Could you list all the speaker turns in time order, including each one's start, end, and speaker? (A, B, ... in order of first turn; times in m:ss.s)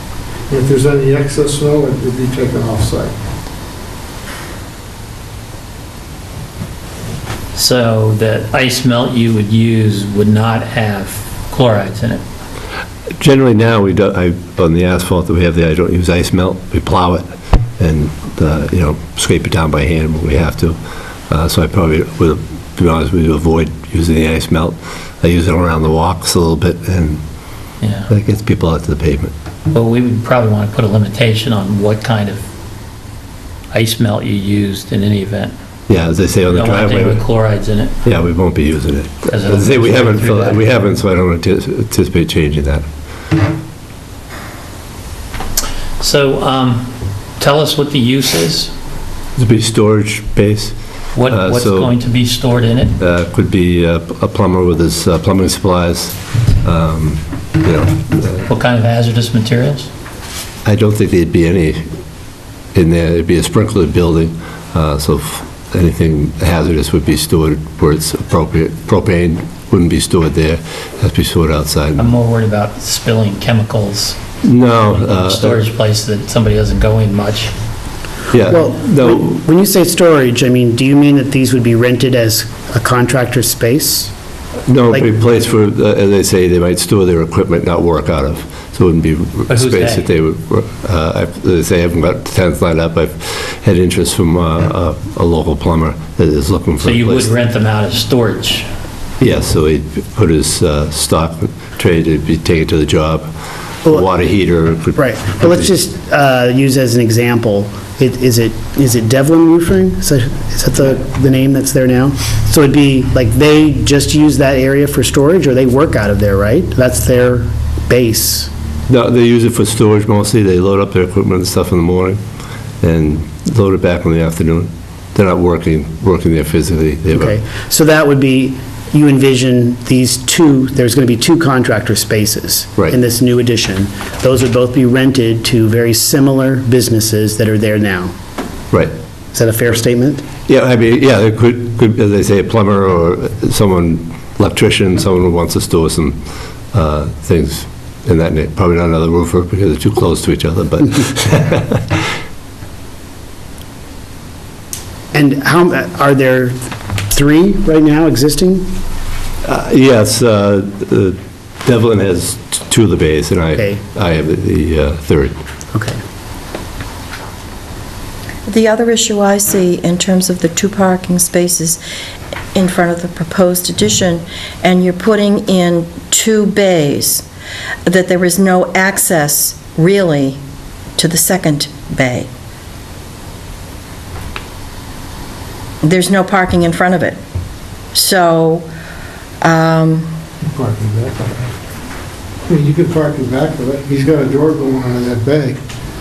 0:00.5-0:03.1 A
0:07.6-0:12.2 B
0:13.2-0:17.2 C
0:17.8-0:20.8 C
0:21.3-0:27.2 C
0:27.8-0:28.1 B
0:28.1-0:29.3 C
0:29.7-0:32.5 B
0:33.7-0:35.5 B
0:35.9-0:37.2 C
0:36.5-0:37.9 B
0:38.0-0:42.8 C
0:39.3-0:40.8 B
0:46.0-0:48.7 B
0:49.4-0:50.7 C
0:51.2-0:52.9 B
0:51.2-0:51.9 C
0:53.0-0:58.4 C
0:58.4-0:59.9 B
1:00.6-1:01.8 C
1:02.8-1:12.1 C
1:12.0-1:14.2 B
1:14.4-1:15.6 C
1:14.7-1:17.5 B
1:18.3-1:19.4 C
1:18.4-1:24.1 D
1:24.7-1:37.3 C
1:29.5-1:30.1 B
1:36.8-1:38.7 B
1:39.2-1:43.3 C
1:43.8-1:45.7 C
1:45.0-1:58.5 D
1:58.9-2:02.2 C
2:02.8-2:07.4 C
2:07.1-2:18.1 D
2:19.3-2:20.2 D
2:20.5-2:26.2 C
2:26.7-2:32.0 C
2:35.1-2:36.6 D
2:37.1-2:38.7 D
2:39.4-2:45.4 C
2:43.6-2:43.8 D
2:48.5-2:51.8 E
2:52.5-2:57.2 E
2:57.9-3:00.4 E
3:01.0-3:02.3 E
3:05.8-3:07.2 E
3:07.9-3:08.7 E
3:09.4-3:10.1 E
3:10.5-3:11.5 A
3:12.5-3:15.6 A